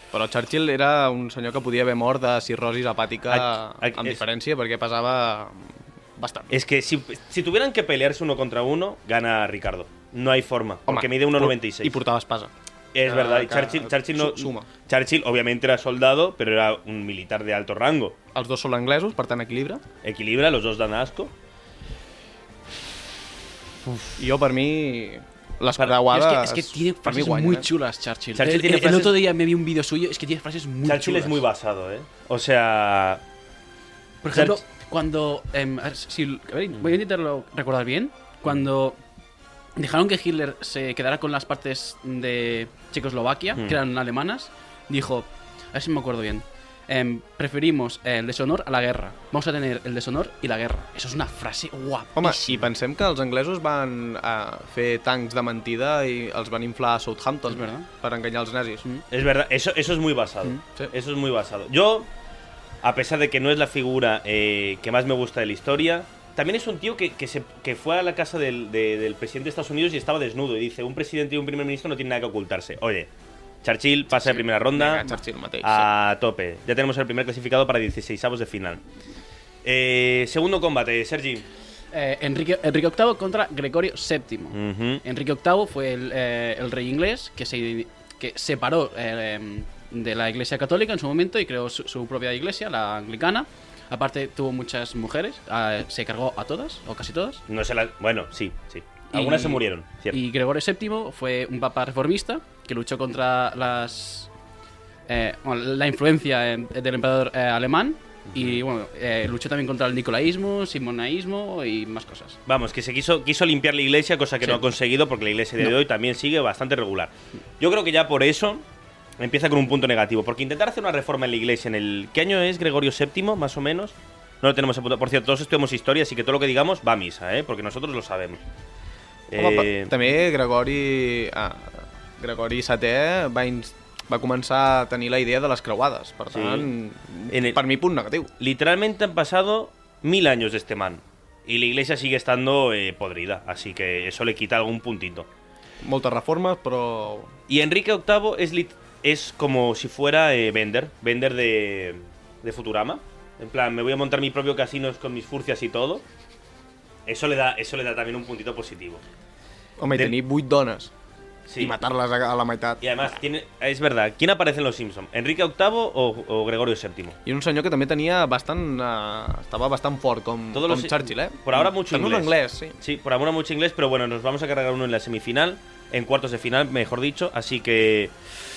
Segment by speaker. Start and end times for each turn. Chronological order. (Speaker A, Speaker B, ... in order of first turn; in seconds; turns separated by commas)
Speaker A: 0.1-6.6, Speaker B: 3.3-4.2, Speaker B: 6.5-12.0, Speaker A: 10.9-12.5, Speaker B: 12.9-18.1, Speaker A: 13.0-14.7, Speaker A: 18.3-19.8, Speaker B: 20.0-21.3, Speaker B: 23.9-24.1, Speaker A: 24.2-27.7, Speaker C: 25.9-31.4, Speaker B: 28.4-29.2, Speaker B: 30.9-33.2, Speaker C: 34.2-39.0, Speaker B: 34.3-34.6, Speaker C: 39.8-52.7, Speaker A: 52.1-58.8, Speaker C: 57.5-57.9, Speaker B: 59.1-62.1, Speaker B: 62.8-73.1, Speaker B: 73.6-75.1, Speaker A: 74.7-75.9, Speaker B: 75.6-78.8, Speaker B: 79.6-81.5, Speaker C: 81.9-97.4, Speaker B: 84.5-85.0, Speaker B: 97.5-100.2, Speaker C: 99.1-104.3, Speaker C: 105.1-112.4, Speaker B: 108.3-108.6, Speaker B: 112.5-118.6, Speaker B: 119.2-128.4, Speaker B: 129.3-130.0, Speaker A: 129.4-138.3, Speaker B: 136.3-136.7, Speaker B: 137.3-137.6, Speaker B: 138.4-145.3, Speaker A: 145.8-147.3, Speaker B: 147.5-156.0, Speaker B: 157.1-159.0, Speaker A: 159.8-160.9, Speaker B: 161.5-161.8, Speaker A: 161.6-163.1, Speaker B: 162.8-167.2, Speaker A: 167.2-172.8, Speaker B: 170.5-178.1